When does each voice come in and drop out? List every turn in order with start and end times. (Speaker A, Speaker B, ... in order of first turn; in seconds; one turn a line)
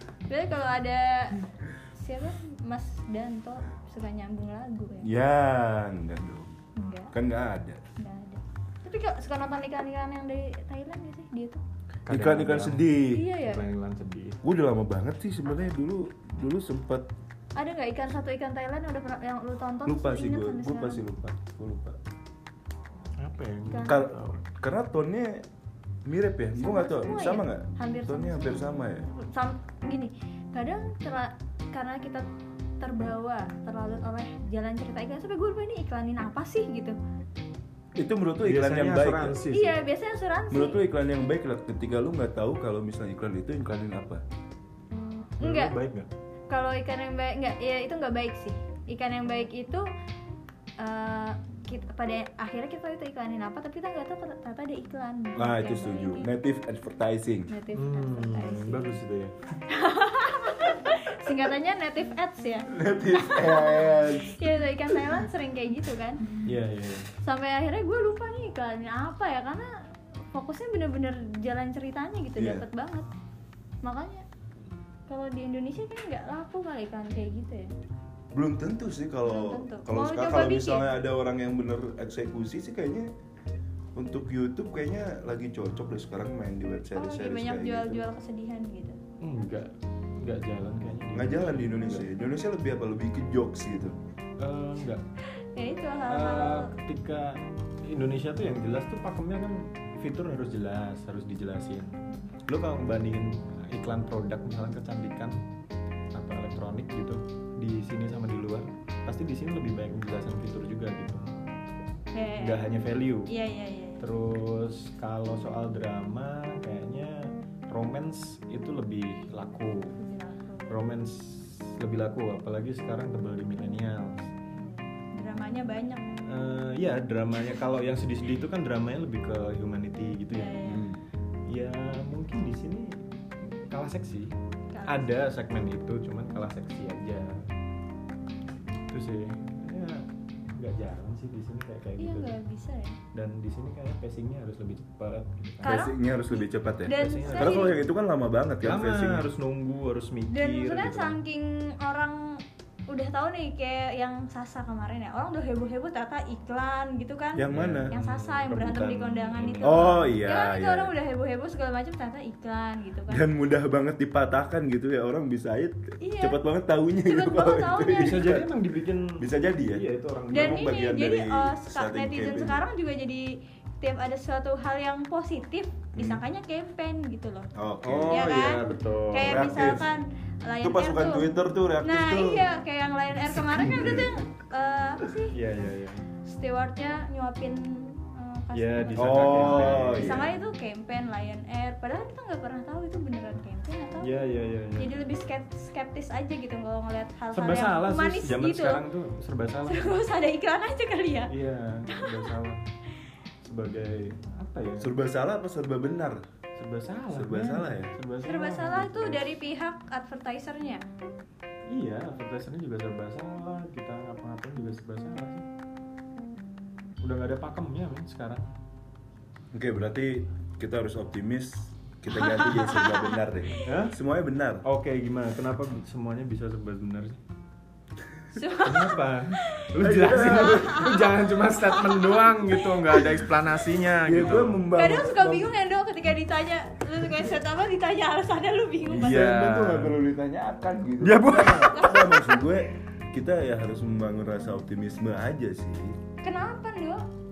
Speaker A: 0.3-1.4
Speaker A: 1.9-5.1
Speaker B: 5.0-6.6
Speaker A: 6.8-7.1
Speaker B: 7.1-7.8
Speaker A: 8.0-11.6
Speaker C: 12.0-14.4
Speaker B: 12.1-13.2
Speaker A: 13.1-13.6
Speaker B: 14.4-17.1
Speaker A: 17.6-21.0
Speaker B: 19.9-22.0
Speaker C: 23.2-24.4
Speaker A: 23.7-24.1
Speaker B: 23.9-25.4
Speaker B: 26.1-29.1
Speaker A: 26.6-32.2
Speaker A: 32.8-37.0
Speaker B: 38.0-39.4
Speaker C: 38.4-39.8
Speaker A: 39.5-40.8
Speaker B: 40.5-44.2
Speaker C: 45.4-46.1
Speaker A: 45.4-45.8
Speaker A: 46.5-49.9
Speaker A: 50.8-56.3
Speaker B: 55.4-57.5
Speaker A: 57.5-59.0
Speaker C: 57.7-59.3
Speaker A: 59.7-66.3
Speaker B: 62.7-65.0
Speaker C: 66.3-67.1
Speaker A: 67.2-69.7
Speaker A: 70.3-73.1
Speaker B: 72.4-72.6
Speaker A: 73.8-74.2
Speaker A: 75.1-77.7
Speaker B: 78.3-83.1
Speaker A: 79.2-80.9
Speaker B: 83.9-88.0
Speaker A: 86.9-89.0
Speaker C: 89.2-92.0
Speaker B: 91.1-94.0
Speaker C: 94.4-95.0
Speaker A: 95.3-96.7
Speaker C: 96.1-105.4
Speaker C: 106.1-111.4
Speaker A: 112.1-114.1
Speaker C: 112.4-113.3
Speaker C: 114.0-120.0
Speaker A: 120.0-120.8
Speaker C: 120.7-124.4
Speaker A: 124.5-126.3
Speaker C: 126.2-130.6
Speaker A: 130.3-130.9
Speaker B: 130.6-131.0
Speaker C: 131.5-133.0
Speaker C: 133.5-134.3
Speaker A: 134.7-135.1
Speaker C: 134.9-137.5
Speaker C: 138.7-142.4
Speaker A: 142.0-143.0
Speaker C: 143.1-145.8
Speaker A: 145.6-147.7
Speaker B: 145.6-149.3
Speaker C: 146.9-147.7
Speaker C: 148.6-151.2
Speaker A: 150.3-163.3
Speaker C: 157.4-160.1
Speaker B: 157.4-157.9
Speaker B: 159.6-160.9
Speaker B: 163.1-168.5
Speaker A: 166.0-166.4
Speaker A: 167.0-168.2
Speaker C: 167.9-170.7
Speaker B: 169.2-172.6
Speaker A: 170.3-177.5
Speaker B: 175.9-176.2
Speaker B: 177.6-178.5
Speaker C: 177.8-179.5
Speaker A: 178.1-178.6
Speaker A: 179.1-181.2
Speaker B: 179.2-179.9
Speaker B: 180.6-182.5
Speaker A: 181.8-185.3
Speaker B: 183.4-184.1
Speaker C: 183.6-184.1
Speaker C: 185.3-186.1
Speaker A: 186.2-194.2
Speaker C: 188.5-190.3
Speaker B: 189.0-190.3
Speaker C: 194.0-195.0
Speaker A: 194.8-198.8
Speaker C: 197.3-200.0
Speaker A: 199.7-201.3
Speaker C: 201.3-202.6
Speaker A: 201.9-202.3
Speaker C: 203.4-204.9
Speaker B: 204.8-206.2
Speaker C: 206.6-209.2
Speaker B: 207.1-207.9
Speaker A: 208.2-210.8
Speaker C: 211.7-215.5
Speaker C: 217.0-218.5
Speaker B: 219.5-224.6
Speaker A: 222.2-223.1
Speaker C: 223.6-223.9
Speaker C: 224.6-227.2
Speaker A: 228.3-233.2
Speaker C: 228.6-234.6
Speaker B: 229.8-231.1
Speaker B: 234.0-235.5
Speaker A: 234.7-239.3
Speaker B: 238.9-245.9
Speaker C: 238.9-240.0
Speaker C: 241.0-241.8
Speaker A: 241.5-242.4
Speaker A: 246.2-247.0